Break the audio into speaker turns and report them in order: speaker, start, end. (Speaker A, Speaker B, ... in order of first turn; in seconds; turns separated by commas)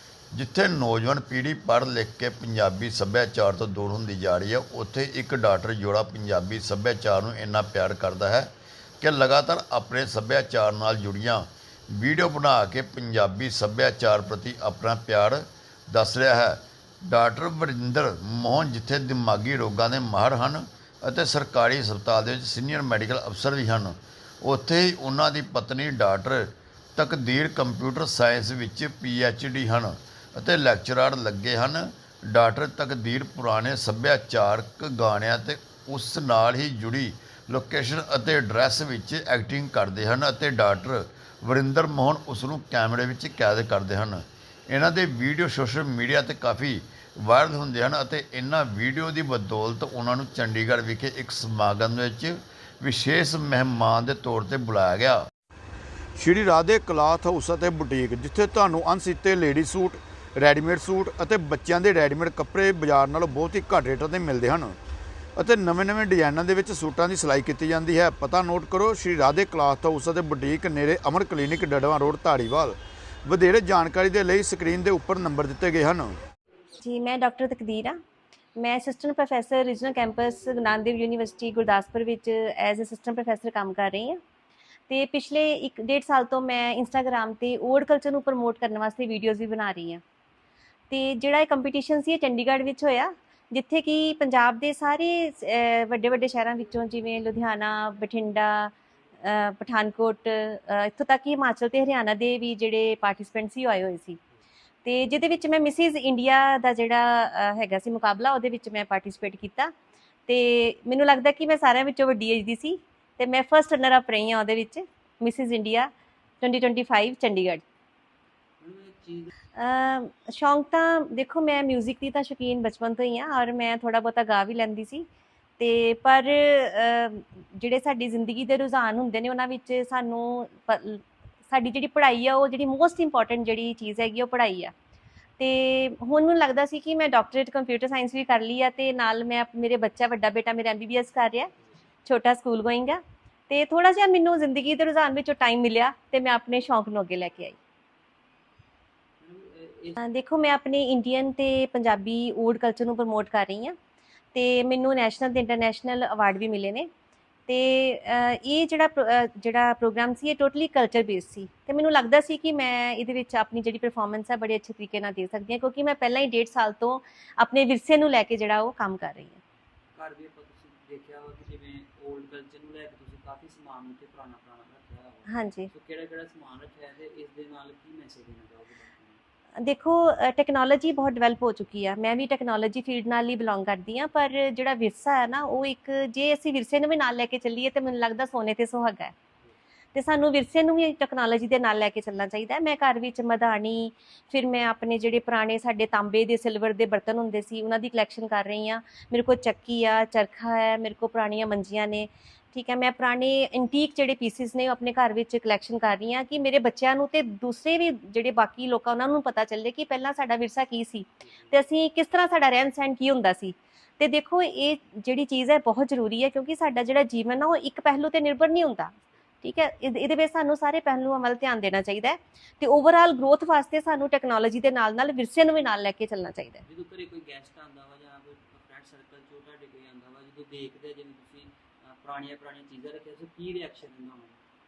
Speaker A: 0.3-55.2, Speaker A: 56.2-64.8, Speaker A: 65.4-76.2, Speaker B: 76.8-78.0, Speaker B: 78.6-84.2, Speaker B: 84.9-90.0, Speaker B: 90.9-104.2, Speaker B: 104.8-109.7, Speaker B: 110.3-115.9, Speaker B: 116.4-117.6, Speaker C: 118.6-119.3, Speaker B: 119.6-125.1, Speaker B: 125.6-134.7, Speaker B: 135.4-141.5, Speaker B: 142.1-147.6, Speaker C: 149.2-150.0, Speaker B: 150.0-153.8, Speaker B: 154.3-156.9, Speaker B: 157.5-169.4, Speaker C: 169.9-179.2, Speaker B: 175.3-175.7, Speaker B: 179.6-189.1, Speaker B: 189.9-226.6, Speaker C: 211.2-211.6, Speaker C: 226.7-234.4